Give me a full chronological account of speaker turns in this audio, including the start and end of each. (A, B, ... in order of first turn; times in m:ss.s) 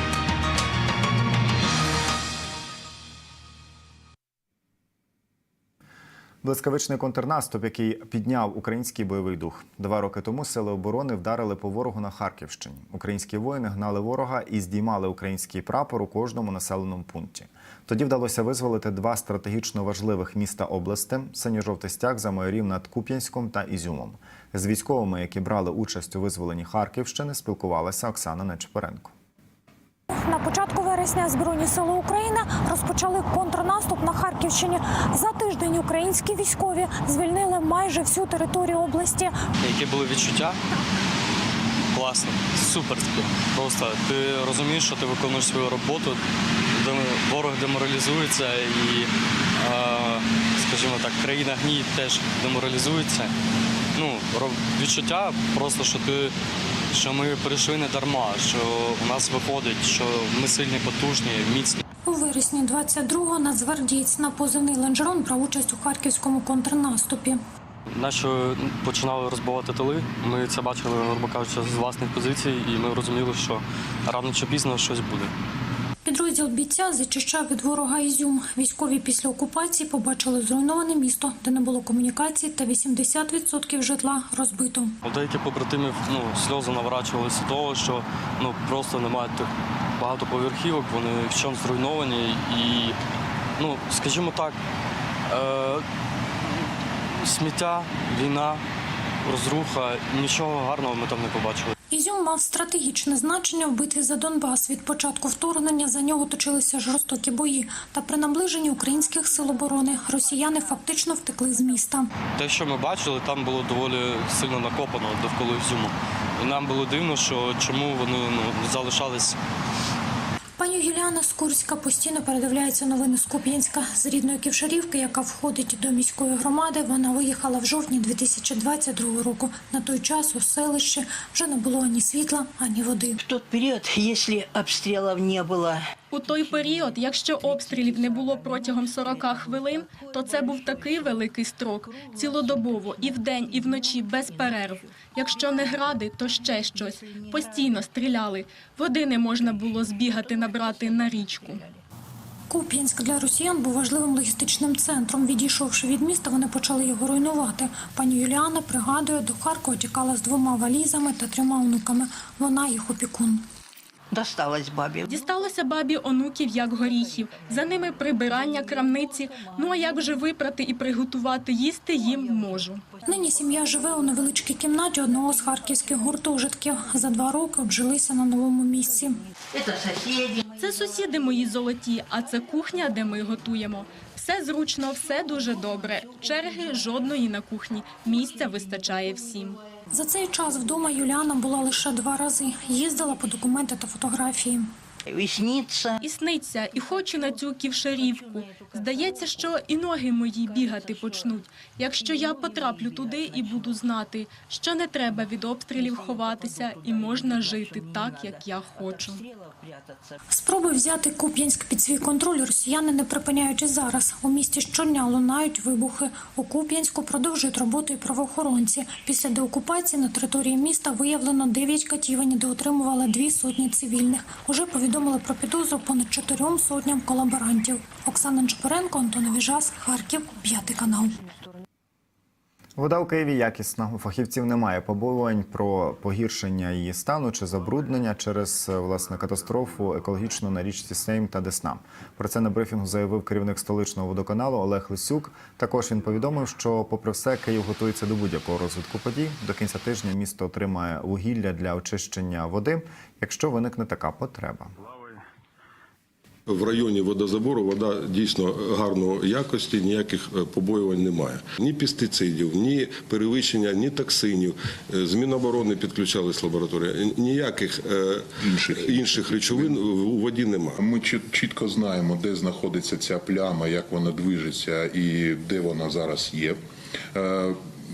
0:06.4-0:29.1 A
0:30.1-0:39.4 B
0:39.6-0:40.6 C
0:41.9-0:46.2 C
0:46.7-0:53.3 C
0:53.9-0:56.3 C
0:56.9-1:01.8 C
1:02.0-1:07.4 B
1:07.9-1:15.3 C
1:16.0-1:25.0 B
1:25.0-1:33.0 C
1:33.6-1:34.6 C
1:35.3-1:35.8 C
1:37.2-1:38.6 C
1:39.2-1:41.7 C
1:41.9-1:52.1 B
1:52.4-1:59.4 C
2:00.6-2:13.2 B
2:13.2-2:15.9 D
2:16.1-2:31.6 E
2:32.5-2:43.4 B
2:44.1-2:45.1 D
2:45.1-2:52.8 E
2:53.0-2:59.2 B
2:59.5-3:00.4 D
3:00.6-3:09.6 E
3:09.9-3:14.7 B
3:15.0-3:16.0 D
3:16.0-3:29.2 E
3:30.3-3:51.1 B
3:52.8-4:14.7 A
4:16.5-4:30.8 F
4:28.4-4:29.8 G
4:30.8-4:36.6 G
4:37.1-4:37.6 G